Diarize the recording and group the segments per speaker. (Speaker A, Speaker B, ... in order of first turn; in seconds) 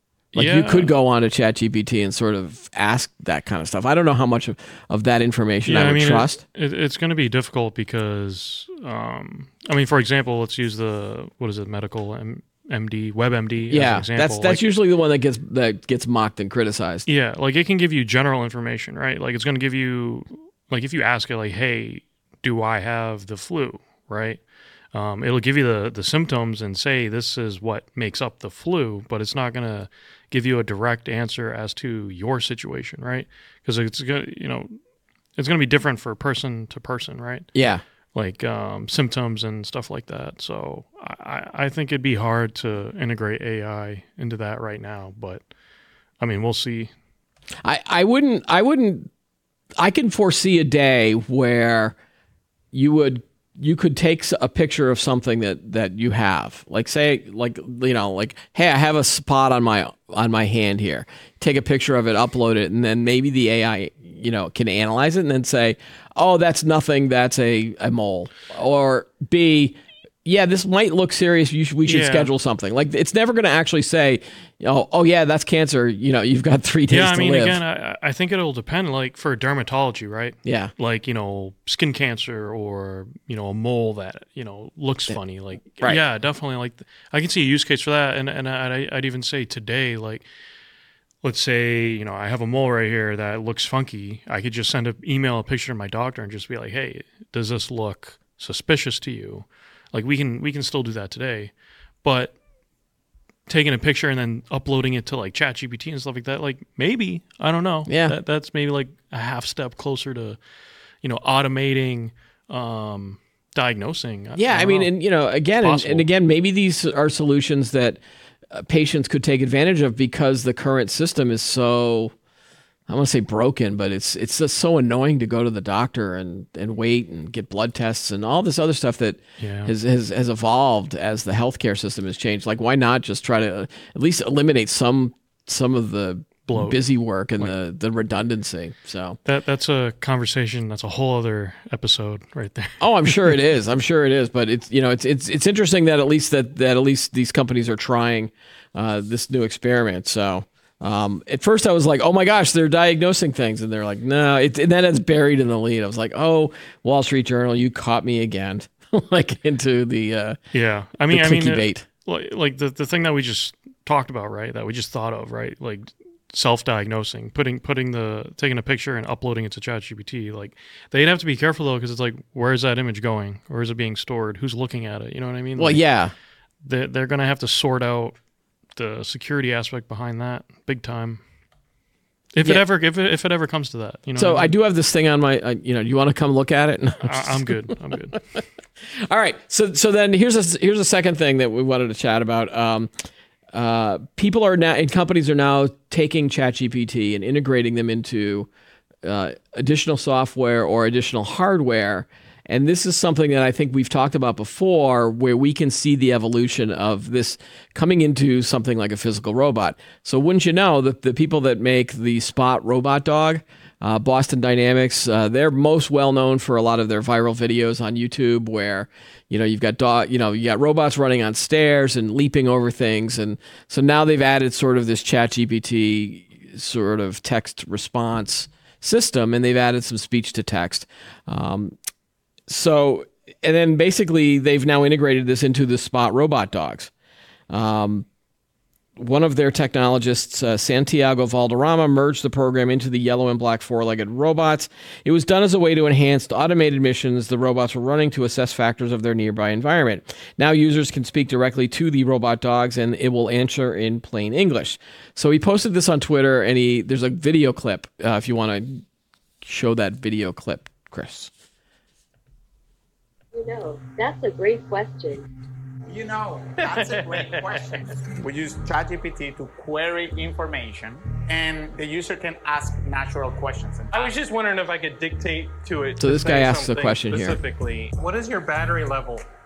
Speaker A: 0.3-0.9, 5.7-14.6, 17.1-24.4, 24.9-34.7, 35.4-37.5, 38.1-45.4, 46.2-46.9, 71.8-72.3, 76.9-90.2, 91.2-102.3, 103.5-110.4, 111.0-116.1, 129.4-129.7, 136.5-136.8, 139.2-143.3, 160.5-175.8, 176.6-178.1, 178.7-181.2, 182.3-184.5, 187.0-188.2
Speaker B: 0.3-6.4, 13.7-17.1, 37.5-37.8, 47.6-49.1, 49.8-51.9, 52.7-77.6, 80.4-80.7, 85.1-86.0, 107.9-108.2, 114.3-118.0, 118.5-122.1, 122.9-139.2, 142.8-160.4, 161.1-161.8, 175.6-176.1, 184.2-187.4, 189.1-192.9, 193.5-198.5, 199.0-231.7, 232.5-236.9, 237.5-238.1, 239.0-258.8, 259.4-261.3, 276.0-277.4
Speaker C: 263.3-265.2
Speaker D: 265.9-274.2
Speaker E: 266.7-267.5, 273.9-279.2